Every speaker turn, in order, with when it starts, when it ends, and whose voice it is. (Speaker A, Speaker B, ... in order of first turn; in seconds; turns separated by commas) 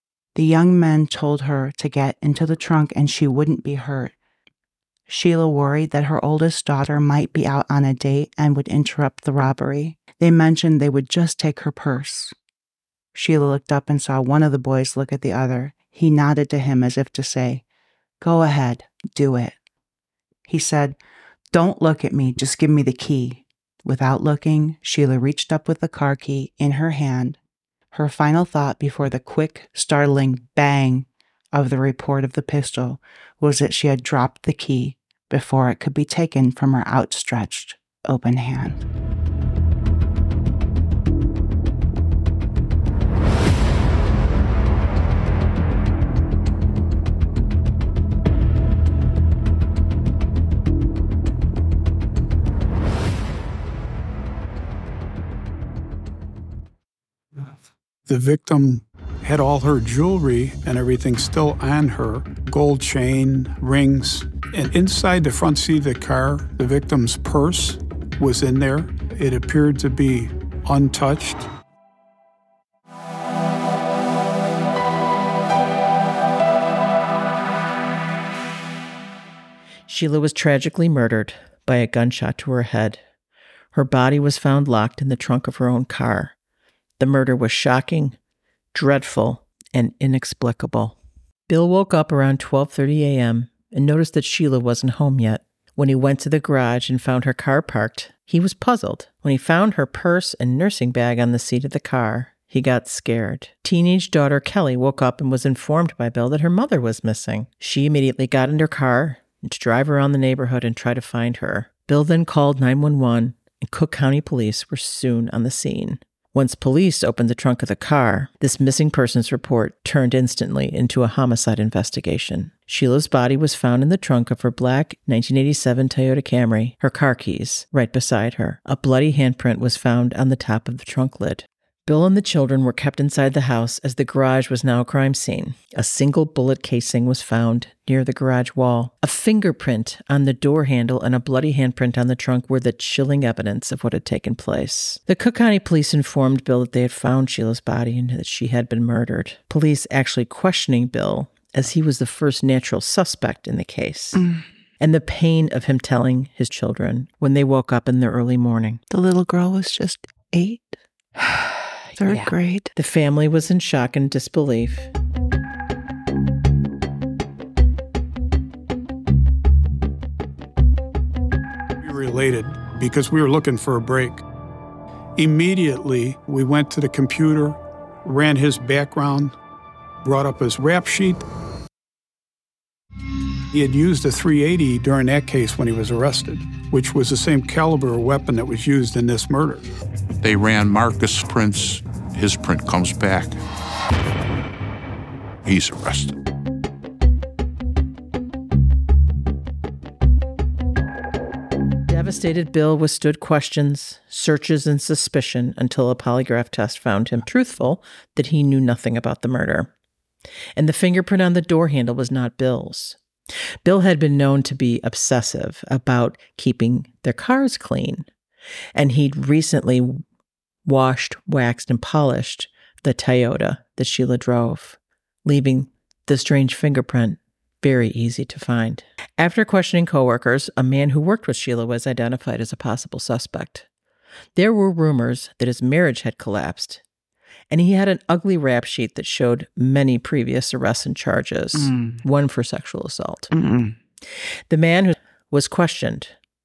Speaker A: 0.3-4.1, Speaker A: 5.1-12.3, Speaker A: 13.1-17.6, Speaker A: 18.2-19.6, Speaker A: 20.5-21.0, Speaker A: 21.5-27.4, Speaker A: 27.9-38.9, Speaker B: 58.1-71.5, Speaker C: 79.9-83.0, Speaker C: 83.7-86.3, Speaker C: 87.0-88.2, Speaker C: 88.7-91.0, Speaker C: 91.5-154.2, Speaker A: 154.1-154.4, Speaker C: 154.8-158.8, Speaker A: 158.9-162.7, Speaker C: 162.0-164.9, Speaker B: 171.8-174.2, Speaker B: 175.2-179.3, Speaker B: 180.0-181.2, Speaker B: 183.5-189.6, Speaker D: 191.0-191.4, Speaker D: 192.2-193.3, Speaker D: 195.5-196.1, Speaker C: 201.9-209.7, Speaker C: 210.6-213.0, Speaker C: 213.7-218.1, Speaker C: 218.8-220.0, Speaker C: 220.7-233.7, Speaker C: 234.4-236.8, Speaker C: 237.5-243.3, Speaker A: 241.6-242.0, Speaker A: 243.3-243.8, Speaker C: 244.5-246.2